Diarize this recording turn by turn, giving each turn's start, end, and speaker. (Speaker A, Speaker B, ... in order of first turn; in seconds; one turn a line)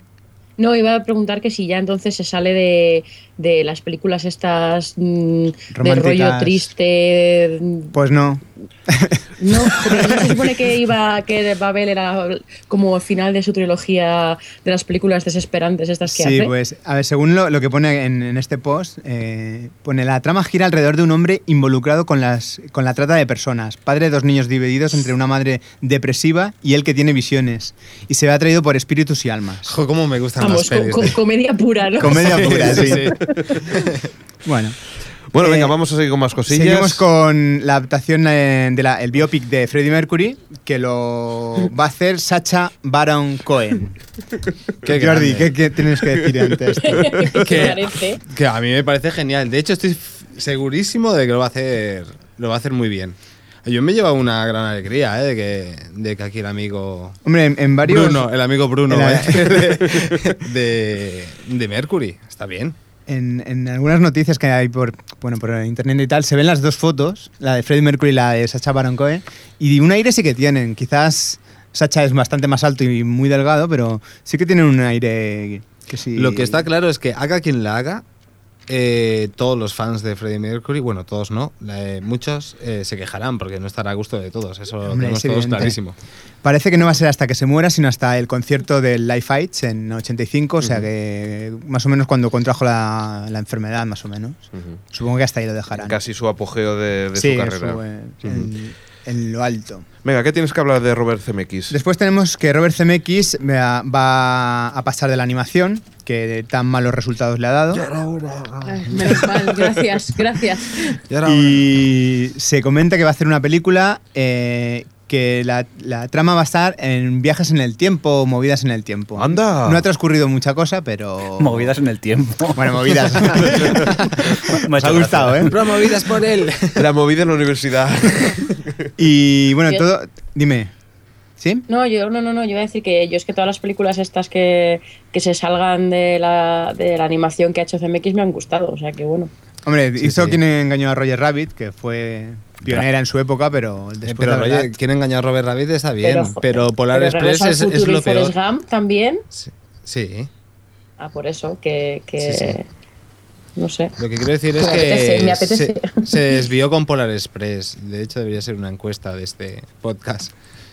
Speaker A: 0.6-7.9
Speaker B: 5.7-6.7
Speaker B: 7.9-10.4
Speaker A: 9.4-16.5
Speaker B: 16.0-29.7
Speaker C: 29.6-31.2
Speaker A: 30.4-33.6
Speaker B: 32.0-33.2
Speaker C: 32.1-33.2
Speaker B: 34.4-34.8
Speaker D: 35.3-37.0
Speaker B: 35.4-35.7
Speaker B: 36.5-44.0
Speaker C: 44.8-45.5
Speaker B: 44.9-47.6
Speaker A: 46.9-48.2
Speaker C: 47.4-57.2
Speaker B: 57.2-58.2
Speaker C: 57.8-62.8
Speaker B: 58.9-59.7
Speaker B: 63.1-76.6
Speaker C: 76.1-78.0
Speaker C: 78.7-86.0
Speaker B: 84.8-85.8
Speaker B: 86.4-96.0
Speaker D: 90.6-90.8
Speaker D: 95.7-98.5
Speaker B: 97.1-99.8
Speaker D: 100.0-101.8
Speaker B: 101.7-107.8
Speaker C: 107.7-109.8
Speaker A: 108.7-111.0
Speaker C: 111.1-111.7
Speaker B: 111.2-121.7
Speaker D: 119.2-119.9
Speaker E: 121.4-123.5
Speaker B: 122.5-125.5
Speaker E: 124.5-125.5
Speaker C: 125.4-126.9
Speaker D: 126.8-128.6
Speaker B: 129.0-130.7
Speaker B: 131.4-131.6
Speaker A: 131.7-139.3
Speaker B: 139.6-144.7
Speaker C: 140.0-140.4
Speaker C: 144.0-148.3
Speaker A: 146.0-149.2
Speaker C: 149.3-150.3
Speaker A: 151.0-152.7
Speaker C: 152.2-152.6
Speaker A: 153.6-153.9
Speaker C: 154.0-160.3
Speaker A: 154.6-156.4